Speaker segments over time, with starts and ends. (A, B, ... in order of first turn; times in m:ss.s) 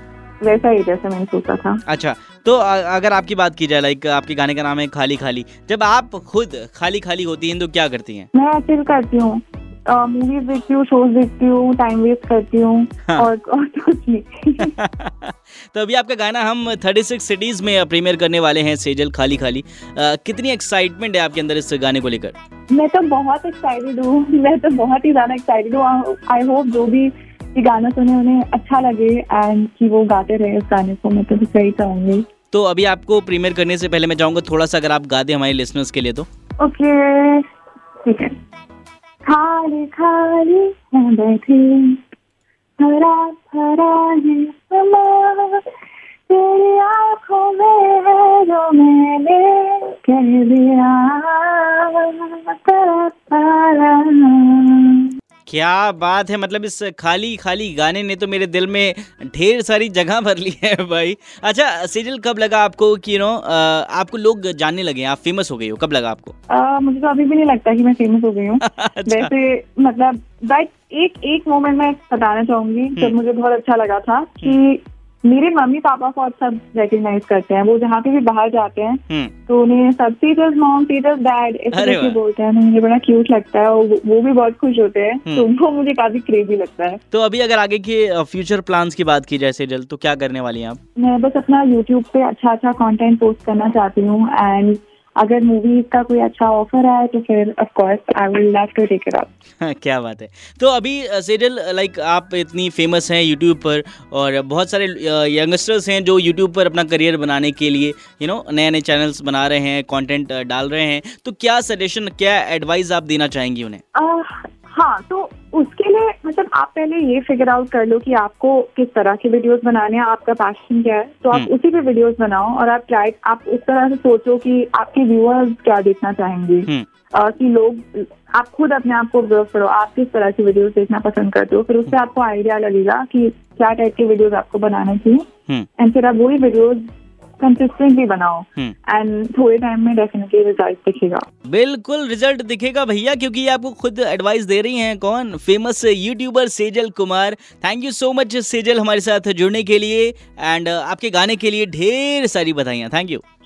0:00.4-0:01.8 A
0:01.9-0:08.3 B
0:08.3-0:14.7 A
0:14.6-0:22.4 B
0:22.7-0:32.2 A
0:32.5-0:36.3 B
0:36.6-0:37.5 A
0:38.0-0:38.4 A
0:39.2-0:42.0 A
0:42.8-0:45.7 A
0:46.3-0:55.1 A
0:55.5-1:06.3 B
1:06.5-1:27.0 A
1:08.6-1:09.3 B
1:21.7-1:22.2 B
1:27.1-1:30.8 B
1:31.0-1:39.3 A
1:39.6-1:53.8 B
1:54.0-2:15.3 A
2:15.8-2:16.9 A
2:17.4-2:21.3 A
2:21.5-2:33.2 B